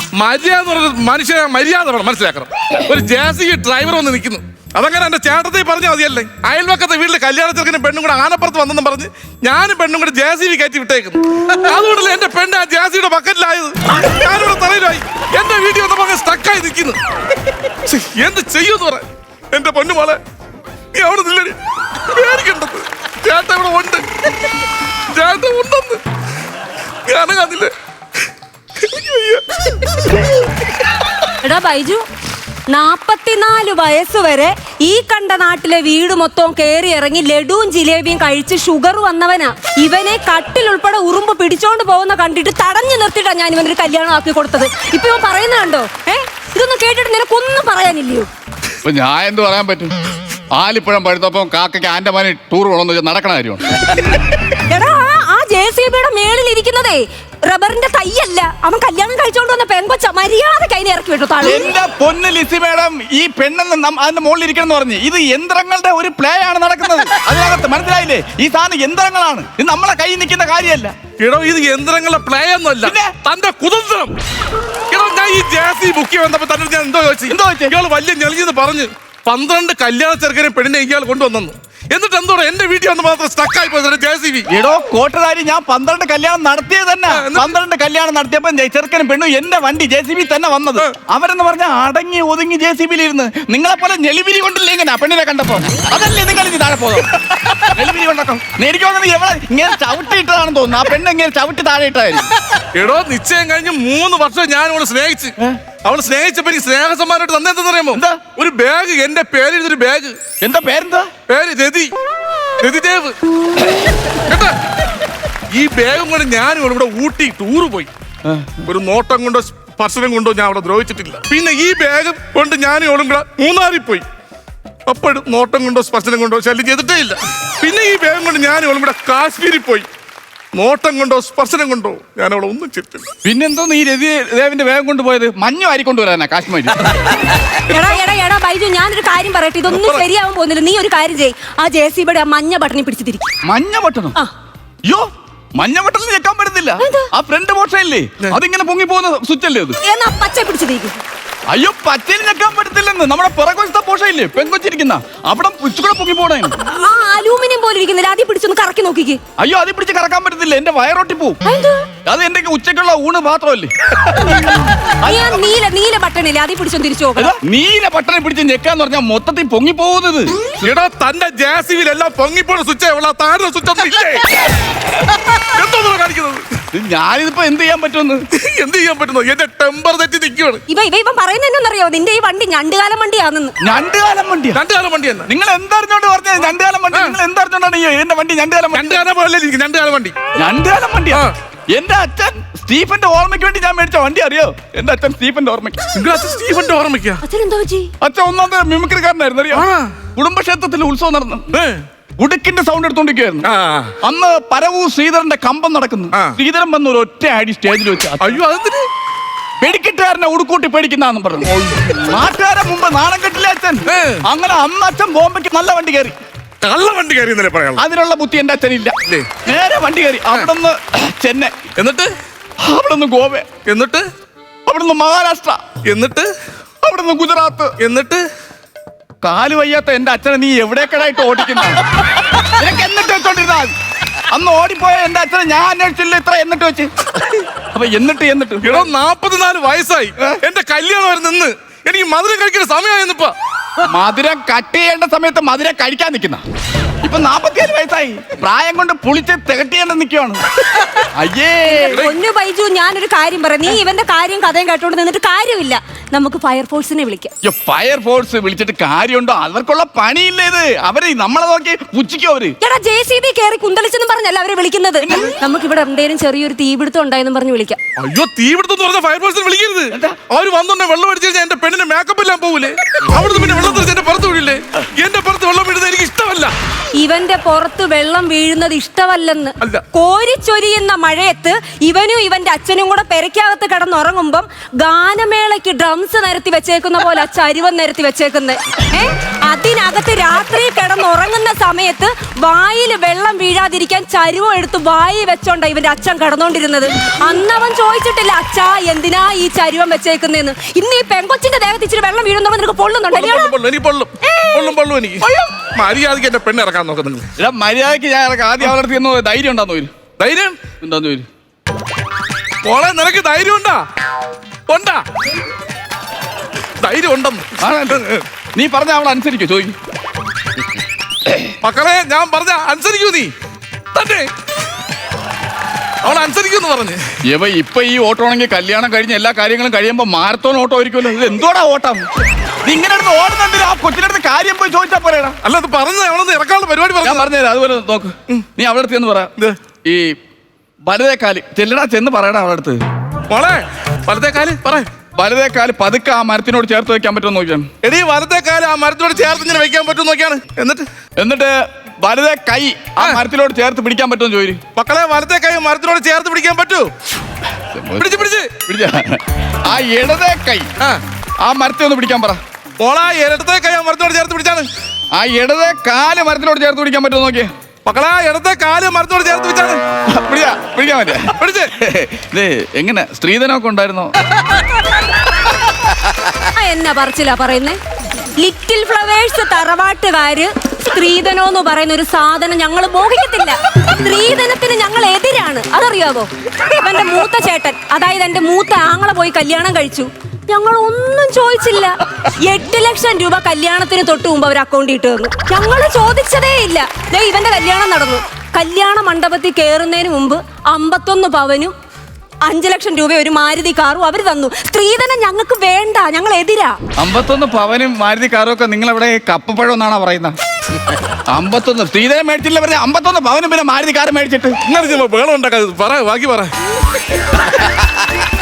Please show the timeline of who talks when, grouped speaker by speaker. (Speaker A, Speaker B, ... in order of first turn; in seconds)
Speaker A: 0.2-17.0, 17.8-20.2, 20.9-21.6, 22.1-24.0, 25.1-26.0, 27.1-27.7, 28.8-30.2, 71.2-74.1, 74.9-84.5, 87.1-87.5, 102.7-110.2, 111.3-111.9, 112.6-113.2, 114.2-114.5, 115.5-117.9, 118.6-124.0, 124.9-129.9, 130.5-133.1, 139.7-140.0, 170.6-174.4, 175.4-176.5, 178.3-180.6, 184.5-185.3, 186.9-187.2, 188.7-190.2, 195.9-197.2, 199.5-200.0, 201.5-201.8, 203.4-204.0, 208.2-208.8, 211.4-212.0, 213.8-214.2, 216.6-217.8, 219.1-219.3, 221.8-222.1, 223.6-224.0, 225.8-226.3, 227.8-228.2, 238.6-243.3, 268.0-276.5, 303.1-305.2, 305.7-307.3, 310.2-310.7, 312.6-313.8, 314.7-315.0, 316.8-318.2, 321.6-323.3, 323.9-324.3, 326.0-327.0, 335.4-337.3, 343.3-344.9, 347.8-350.8, 352.9-353.2, 354.8-356.9, 358.0-358.6, 362.8-364.7, 367.8-369.8, 371.3-371.7, 414.6-416.5
Speaker B: 31.4-32.0, 32.7-48.3, 54.5-61.7, 137.7-143.3, 146.8-147.1, 149.8-151.0, 156.7-159.2, 161.4-161.8, 165.0-167.3, 180.7-183.5, 197.2-197.9, 251.7-257.3, 262.6-267.8, 276.9-303.5, 304.2-305.6, 376.5-377.8, 378.4-401.7, 402.4-406.8
Speaker C: 48.8-49.9, 50.5-54.3, 61.4-70.9, 72.8-73.2, 77.3-77.7, 84.5-102.3, 107.9-108.3, 110.4-111.1, 118.2-118.6, 133.2-137.2, 143.4-144.2, 144.8-149.8, 151.5-156.5, 159.4-161.4, 162.0-165.2, 167.2-170.6, 176.7-178.2, 183.6-184.6, 185.3-189.0, 190.3-195.9, 198.0-201.6, 202.2-203.5, 204.0-208.4, 209.6-216.2, 217.8-221.7, 222.6-223.6, 224.7-225.7, 226.8-227.7, 229.2-233.7, 234.3-238.8, 243.8-246.4, 247.0-252.0, 257.4-262.6, 265.0-265.4, 269.9-270.2, 307.4-309.9, 310.8-311.3, 317.6-319.8, 327.2-332.1, 332.6-335.4, 337.0-339.3, 339.8-340.1, 340.8-342.8, 345.1-347.7, 351.2-354.6, 357.5-358.1, 358.6-360.7, 361.4-362.4, 365.1-367.5, 370.1-374.1, 407.0-410.4, 411.3-414.6, 417.4-418.1